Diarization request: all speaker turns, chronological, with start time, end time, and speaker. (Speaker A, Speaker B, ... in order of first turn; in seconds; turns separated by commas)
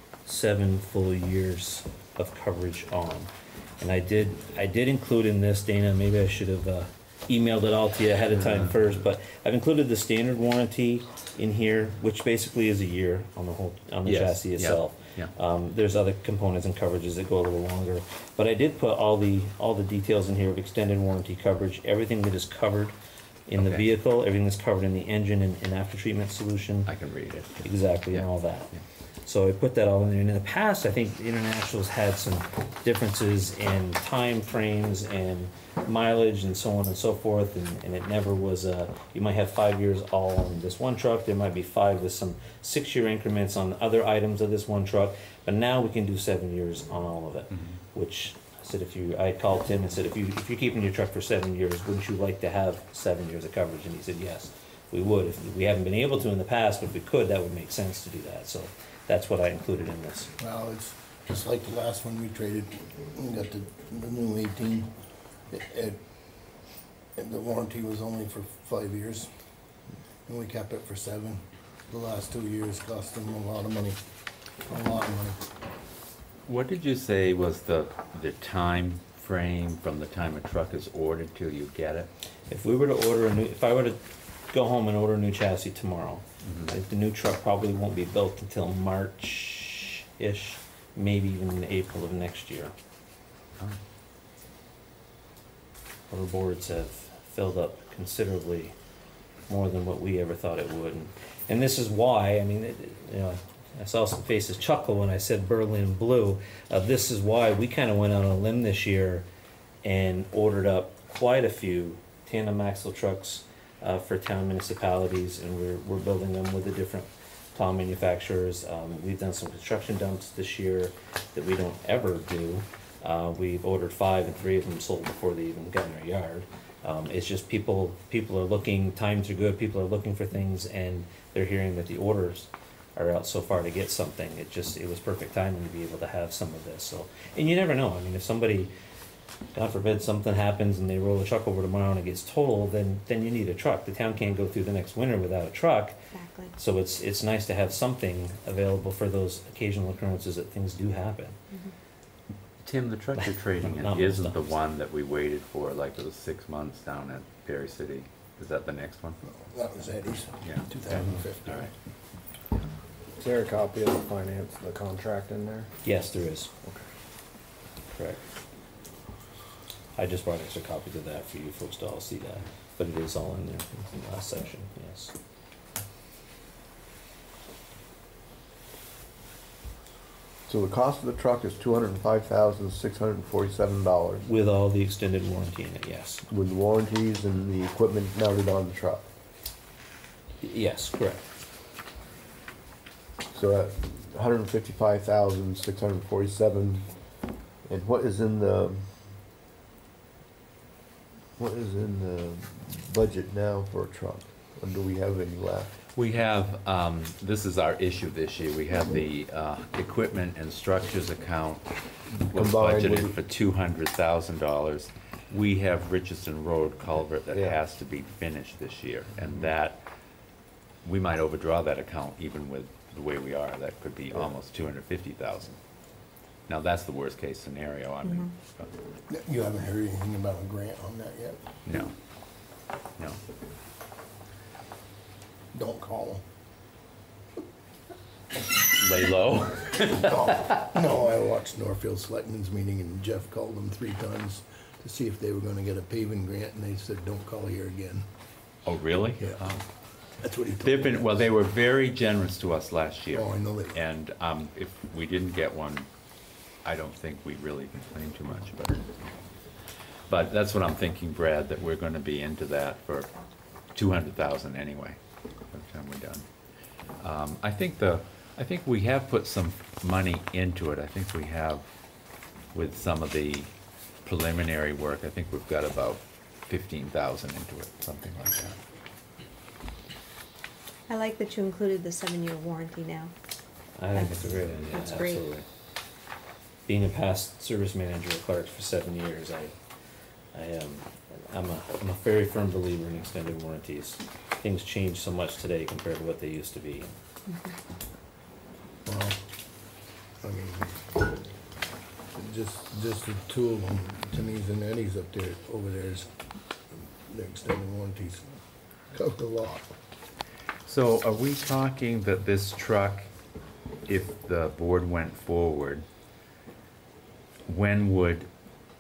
Speaker A: 0.3-22.9, Speaker B: 8.4-8.8, Speaker B: 14.1-15.3, Speaker A: 23.5-26.9, Speaker B: 23.6-23.9, Speaker B: 26.9-28.8, Speaker A: 27.6-28.7, Speaker A: 29.2-60.3, Speaker B: 47.5-47.8, Speaker C: 60.4-64.9, Speaker C: 65.5-66.0, Speaker C: 67.2-69.3, Speaker C: 70.3-74.0, Speaker C: 74.7-75.4, Speaker B: 76.5-82.1, Speaker A: 82.5-92.7, Speaker B: 86.4-86.8, Speaker A: 96.1-98.8, Speaker A: 99.5-109.2, Speaker A: 109.8-138.7, Speaker A: 139.5-146.0, Speaker D: 146.1-146.5, Speaker A: 146.6-151.4, Speaker B: 152.6-159.2, Speaker A: 153.2-154.6, Speaker C: 159.3-161.7, Speaker B: 160.4-161.7, Speaker E: 163.2-165.7, Speaker A: 165.8-166.5, Speaker A: 167.9-168.2, Speaker A: 170.0-175.1, Speaker F: 180.5-184.3, Speaker A: 184.2-186.2, Speaker F: 186.3-189.1, Speaker A: 190.4-191.3, Speaker F: 193.3-196.9, Speaker F: 197.7-198.9, Speaker F: 201.4-205.8, Speaker B: 205.9-211.7, Speaker F: 212.1-213.2, Speaker B: 212.3-219.8, Speaker F: 217.3-217.6, Speaker B: 220.8-225.6, Speaker B: 226.5-228.7, Speaker C: 229.1-231.4, Speaker B: 231.7-231.9, Speaker C: 235.5-236.2, Speaker B: 238.7-240.6, Speaker C: 239.8-248.1, Speaker B: 248.7-249.6, Speaker C: 250.2-251.3, Speaker B: 250.6-255.9, Speaker C: 253.1-253.8, Speaker B: 256.6-258.9, Speaker B: 260.1-263.1, Speaker B: 263.7-265.0, Speaker B: 265.5-266.3, Speaker B: 267.0-271.7, Speaker B: 272.5-273.5, Speaker B: 274.0-278.6, Speaker D: 280.9-283.1, Speaker A: 283.8-285.4, Speaker D: 283.9-285.3, Speaker B: 284.4-285.0, Speaker A: 286.7-289.6, Speaker A: 290.3-296.9, Speaker C: 298.9-299.2, Speaker C: 300.2-300.9, Speaker C: 302.1-306.1, Speaker C: 307.1-308.2, Speaker C: 308.9-309.7, Speaker B: 310.6-313.1, Speaker B: 313.9-315.9, Speaker B: 317.5-318.3